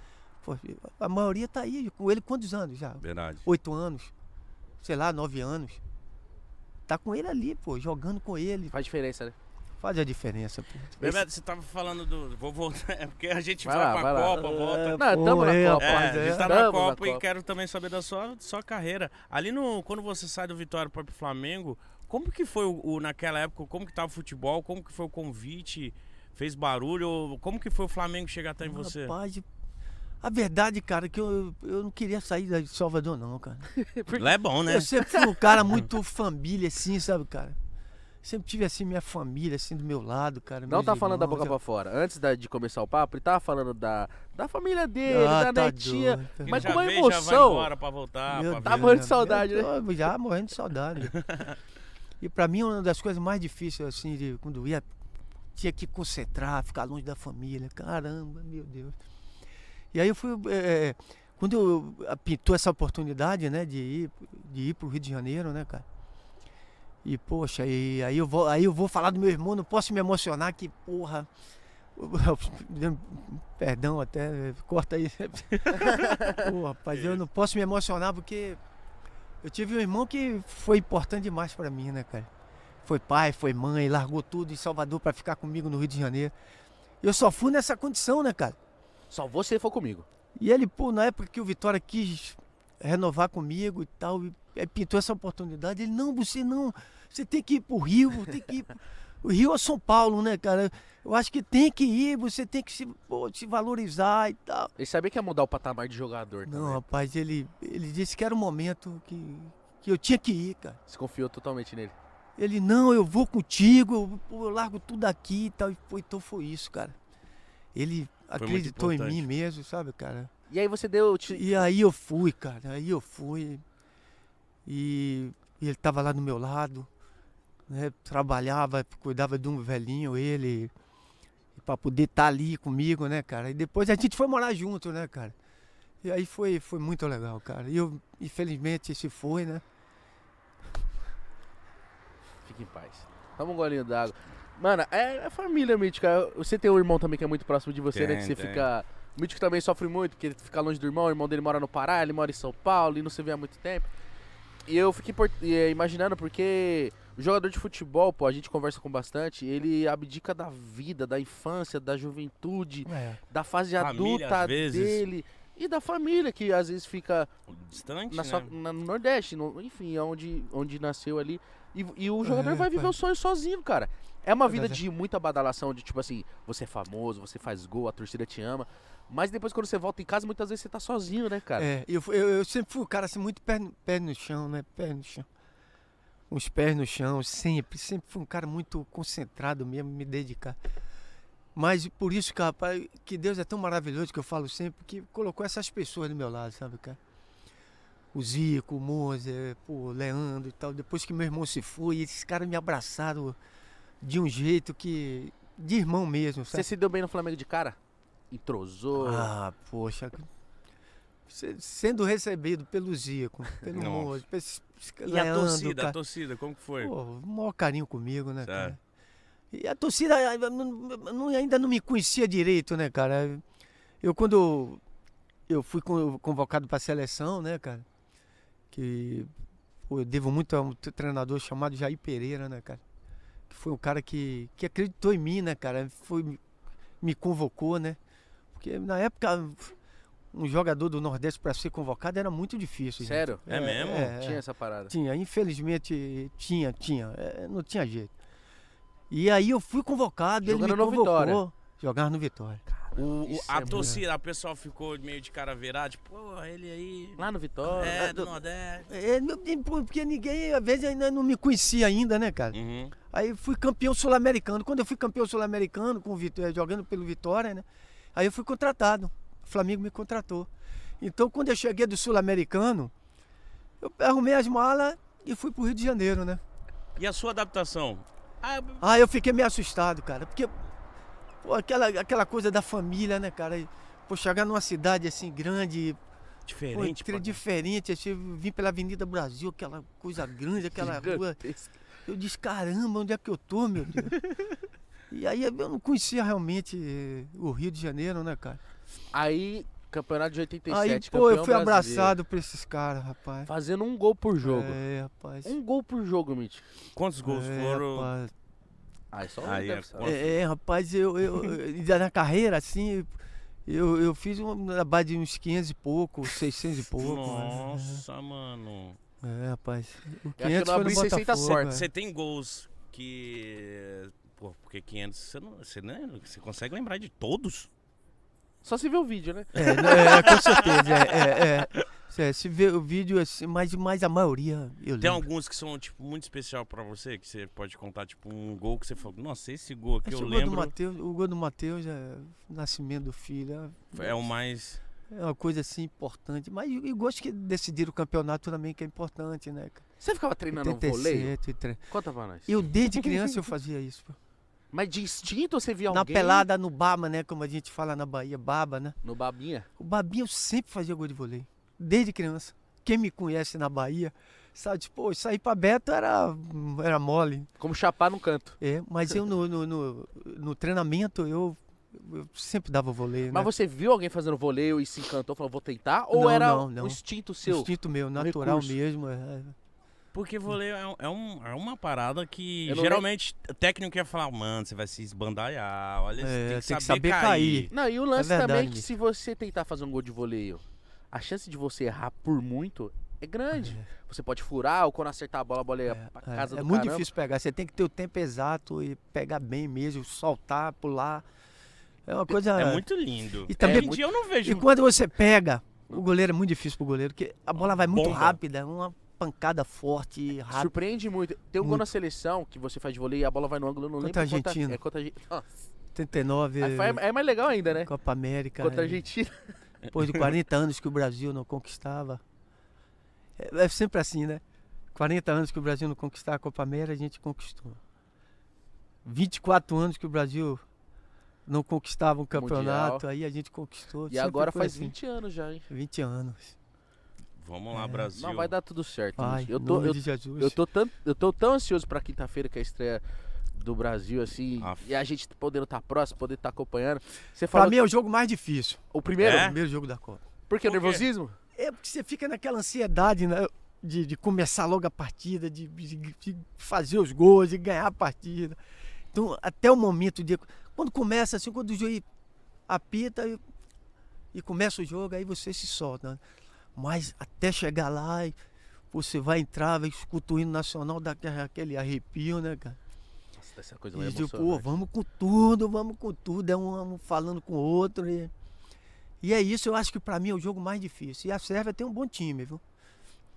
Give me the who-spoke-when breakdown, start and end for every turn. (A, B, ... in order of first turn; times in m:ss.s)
0:00.4-0:04.1 A
0:03.0-0:03.5 B
0:04.8-0:05.8 A
0:06.9-0:08.7 A
0:08.7-0:09.4 C
0:09.8-0:11.0 A
0:11.0-0:15.1 B
0:13.6-0:17.2 C
0:14.4-0:16.5 A
0:15.8-0:29.2 B
0:28.6-0:29.5 A
0:30.2-0:33.7 A
0:33.7-0:34.4 C
0:34.2-0:35.0 B
0:34.7-0:37.6 A
0:38.2-0:41.6 A
0:40.7-0:47.7 C
0:45.1-0:46.8 A
0:46.4-0:49.0 B
0:48.3-0:51.2 A
0:48.6-0:49.7 C
0:51.1-0:51.6 B
0:52.2-0:54.9 A
0:55.6-0:59.0 A
0:59.9-1:05.8 A
1:07.0-1:11.3 A
1:12.0-1:18.6 A
1:19.4-1:22.3 A
1:22.8-1:26.3 A
1:27.0-1:28.6 A
1:29.1-1:30.1 C
1:30.4-1:44.7 A
1:44.8-1:46.8 C
1:46.4-1:50.8 A
1:50.9-1:52.0 C
1:52.4-1:57.0 A
1:57.7-2:00.3 A
1:58.4-1:59.3 B
2:00.5-2:01.6 C
2:01.3-2:03.6 A
2:04.7-2:06.9 A
2:07.7-2:10.7 A
2:11.6-2:15.4 A
2:16.0-2:19.6 A
2:22.4-2:33.9 C
2:27.9-2:28.7 B
2:34.7-2:47.3 C
2:42.9-2:43.2 A
2:43.8-2:45.0 B
2:47.5-2:48.5 B
2:48.1-3:01.7 C
2:52.2-2:52.9 A
2:54.5-2:54.8 A
3:01.6-3:05.3 A
3:06.3-3:10.6 A
3:11.6-3:17.0 A
3:18.1-3:23.4 A
3:24.0-3:26.7 A
3:26.5-3:27.8 C
3:28.3-3:29.3 C
3:29.0-3:30.3 A
3:31.3-3:36.0 A
3:33.7-3:34.2 B
3:35.0-3:36.9 B
3:36.8-3:38.8 A
3:38.4-3:38.8 B
3:39.5-3:43.4 A
3:44.0-3:44.8 A
3:45.5-3:47.9 A
3:48.7-3:49.3 A
3:49.9-3:52.8 A
3:53.5-3:56.4 A
3:57.0-3:58.0 A
3:58.5-3:59.8 A
4:00.3-4:08.1 A
4:03.0-4:03.4 C
4:03.5-4:04.2 B
4:04.2-4:04.9 C
4:09.1-4:12.6 A
4:10.4-4:11.4 C
4:12.7-4:14.0 C
4:13.0-4:18.9 B
4:13.6-4:14.0 A
4:17.2-4:18.1 C
4:17.9-4:18.3 A
4:18.9-4:22.6 A
4:22.5-4:23.0 B
4:23.1-4:32.9 A
4:33.8-4:36.4 A
4:37.0-4:38.8 B
4:38.8-4:40.6 A
4:41.4-4:46.0 A
4:46.5-4:47.4 B
4:46.7-4:51.4 A
4:50.8-4:51.8 C
4:52.1-4:54.2 A
4:55.1-4:58.6 A
4:59.1-5:02.2 C
5:00.7-5:03.5 A
5:03.5-5:04.8 C
5:04.4-5:05.6 A
5:05.4-5:06.7 C
5:07.0-5:08.1 B
5:07.2-5:08.3 A
5:09.1-5:10.2 C
5:09.4-5:10.3 B
5:10.0-5:13.1 A
5:13.7-5:18.0 A
5:17.0-5:19.0 B
5:19.2-5:21.9 A
5:20.4-5:21.8 C
5:21.4-5:27.7 B
5:28.6-5:30.6 C
5:29.6-5:35.3 A
5:29.8-5:31.8 B
5:35.0-5:40.7 B
5:40.0-5:44.2 A
5:43.9-5:44.8 B
5:45.1-5:49.8 A
5:50.0-5:51.4 C
5:50.5-5:51.8 A
5:51.9-5:52.7 C
5:52.5-5:54.2 A
5:54.7-5:56.5 C
5:55.9-5:59.0 A
5:59.0-5:59.7 C
5:59.8-6:07.5 A
6:07.6-6:08.6 C
6:08.6-6:13.5 A
6:13.3-6:18.8 C
6:16.1-6:19.6 A
6:20.1-6:27.7 B
6:22.7-6:23.0 C
6:26.2-6:28.9 A
6:27.7-6:37.1 C
6:33.5-6:33.9 A
6:35.9-6:41.3 A
6:42.1-6:42.8 A
6:42.4-6:44.7 B
6:43.5-6:50.7 A
6:43.6-6:44.0 C
6:47.7-6:48.4 B
6:50.5-6:55.5 C
6:51.6-6:51.9 A
6:54.0-6:54.8 A
6:55.9-6:57.0 A
6:56.6-6:57.9 C
6:57.8-6:59.0 A
6:58.6-6:59.5 C
6:59.9-7:02.2 A
7:03.4-7:04.4 A
7:04.9-7:07.8 A
7:09.0-7:10.6 A
7:11.5-7:15.0 A
7:12.3-7:13.0 C
7:14.1-7:15.7 C
7:15.7-7:16.6 A
7:17.4-7:18.5 B
7:17.7-7:18.1 A
7:18.1-7:23.0 C
7:19.2-7:20.6 A
7:23.6-7:27.8 C
7:27.5-7:30.2 A
7:28.9-7:29.6 C
7:29.2-7:29.6 B
7:30.5-7:31.4 C
7:30.6-7:31.1 B
7:31.6-7:38.6 A
7:39.1-7:42.0 A
7:42.7-7:43.4 A
7:44.3-7:46.2 A
7:46.8-7:48.4 A
7:48.9-7:52.8 A
7:53.4-7:54.8 C
7:53.9-7:58.3 A
7:59.2-8:02.6 A